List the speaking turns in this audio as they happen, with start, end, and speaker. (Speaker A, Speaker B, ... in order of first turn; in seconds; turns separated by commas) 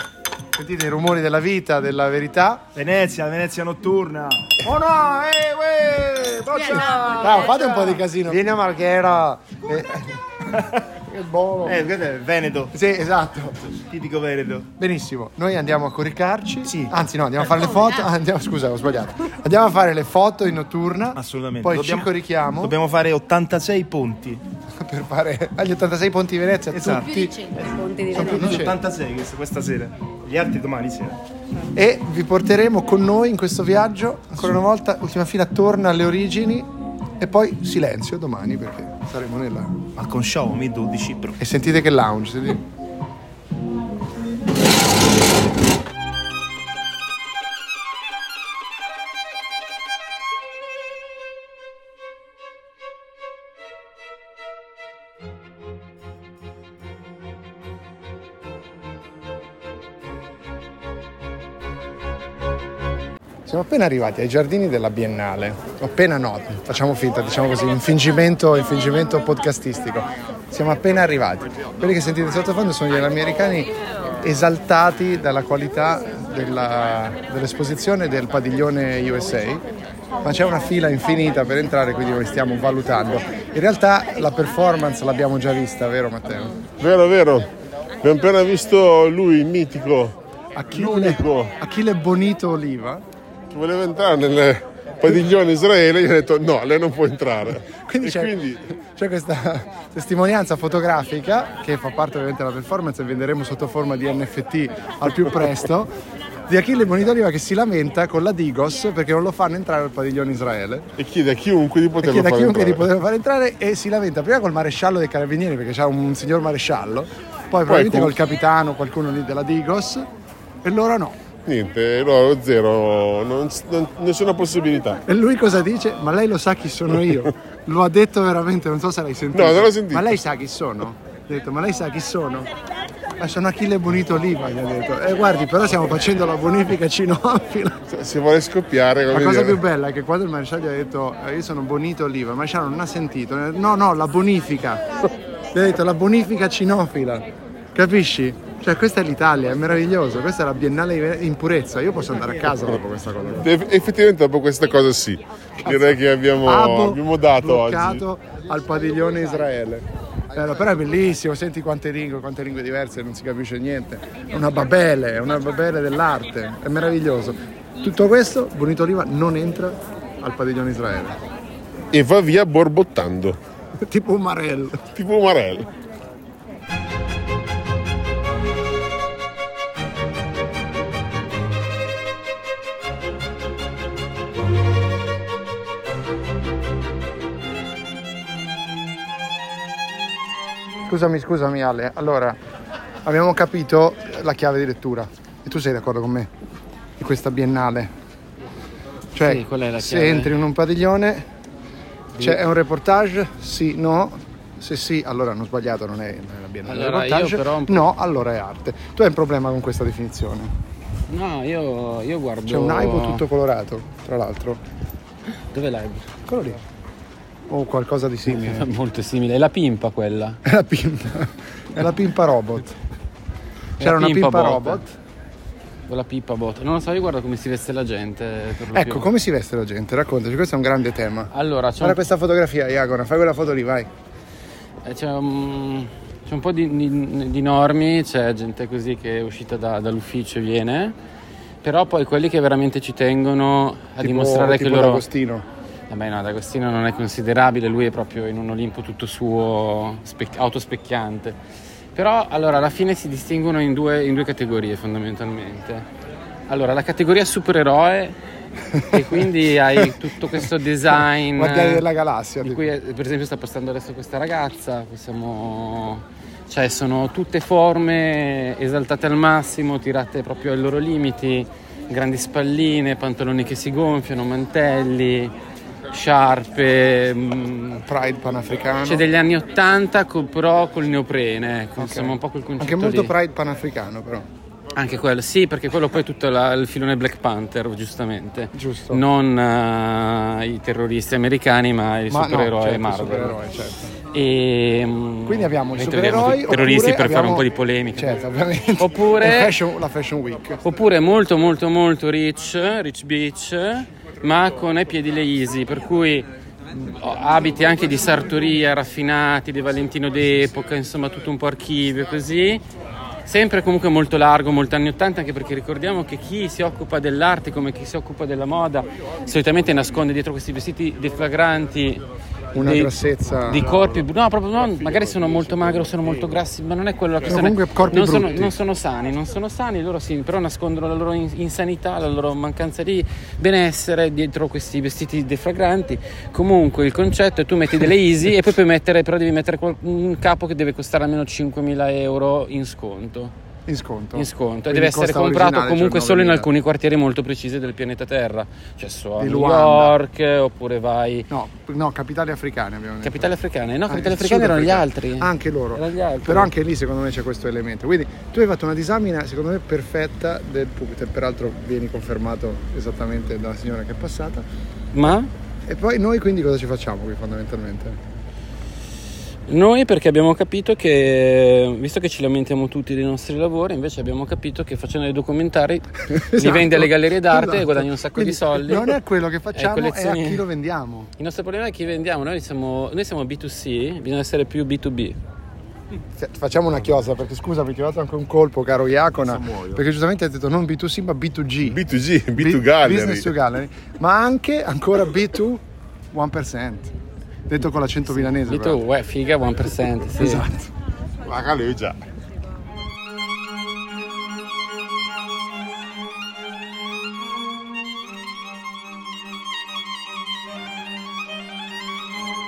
Speaker A: 0.6-2.7, Speaker B: 2.8-4.6, Speaker A: 4.6-10.2, Speaker C: 6.5-8.0, Speaker A: 11.0-11.8, Speaker B: 11.6-12.7, Speaker A: 12.7-13.6, Speaker B: 13.7-14.7, Speaker A: 14.8-22.8, Speaker B: 16.7-17.0, Speaker B: 21.1-24.4, Speaker A: 24.8-27.4, Speaker B: 26.7-27.2, Speaker C: 26.9-28.7, Speaker A: 28.1-28.8, Speaker B: 28.1-31.2, Speaker A: 31.8-39.8, Speaker B: 40.0-41.4, Speaker A: 41.4-42.6, Speaker A: 63.5-79.7, Speaker A: 80.2-86.6, Speaker D: 86.8-87.5, Speaker D: 88.0-90.2, Speaker A: 90.6-93.0, Speaker D: 90.7-91.5, Speaker D: 93.5-98.6, Speaker A: 97.7-98.3, Speaker A: 99.0-105.9, Speaker A: 106.5-110.9, Speaker D: 111.0-112.8, Speaker A: 112.0-120.1, Speaker D: 117.7-118.1, Speaker A: 120.6-121.2, Speaker D: 121.5-125.0, Speaker A: 125.1-132.5, Speaker D: 129.3-130.1, Speaker A: 133.2-137.8, Speaker D: 137.9-139.6, Speaker A: 139.1-144.9, Speaker A: 145.5-153.5, Speaker D: 153.4-158.0, Speaker A: 155.7-171.2, Speaker D: 171.9-173.4, Speaker A: 173.8-174.9, Speaker D: 174.9-175.7, Speaker A: 190.9-192.4, Speaker A: 193.1-196.3, Speaker A: 197.0-197.9, Speaker A: 199.2-201.3, Speaker E: 199.2-200.3, Speaker A: 202.2-210.6, Speaker E: 206.7-207.9, Speaker E: 211.1-213.2, Speaker A: 212.5-214.6, Speaker E: 215.5-216.2, Speaker A: 216.3-216.6, Speaker A: 217.5-218.7, Speaker E: 218.3-220.4, Speaker A: 220.4-222.8, Speaker A: 223.8-224.8, Speaker E: 223.8-224.9, Speaker E: 225.9-229.1, Speaker A: 228.7-233.9, Speaker E: 231.3-232.0, Speaker E: 234.8-240.9, Speaker E: 241.6-245.1, Speaker A: 244.0-245.5, Speaker E: 245.9-251.4, Speaker E: 251.9-255.9, Speaker E: 256.5-258.2, Speaker A: 258.7-259.1, Speaker E: 258.9-261.9, Speaker A: 261.4-262.7, Speaker E: 262.4-275.3, Speaker E: 275.9-277.8, Speaker A: 277.9-279.1, Speaker E: 278.9-283.1, Speaker A: 281.8-284.3, Speaker E: 284.8-293.4, Speaker A: 288.5-289.0, Speaker A: 292.1-293.9, Speaker E: 294.1-298.2, Speaker A: 295.2-300.6, Speaker E: 298.8-299.6, Speaker E: 300.6-312.6, Speaker E: 313.3-322.0, Speaker A: 322.6-323.7, Speaker E: 322.6-343.3, Speaker A: 327.2-328.6, Speaker A: 343.7-346.5, Speaker E: 344.1-351.3, Speaker A: 349.2-350.0, Speaker A: 351.3-353.3, Speaker E: 353.0-356.5, Speaker A: 353.9-364.5, Speaker E: 364.9-365.3, Speaker A: 365.7-368.0, Speaker E: 369.5-379.0, Speaker A: 376.1-381.1, Speaker E: 379.6-380.4, Speaker E: 381.2-385.2, Speaker A: 386.2-391.8, Speaker D: 391.7-393.3, Speaker A: 392.4-396.9, Speaker A: 397.5-398.8, Speaker E: 398.2-400.4, Speaker A: 400.1-400.7, Speaker D: 401.2-402.0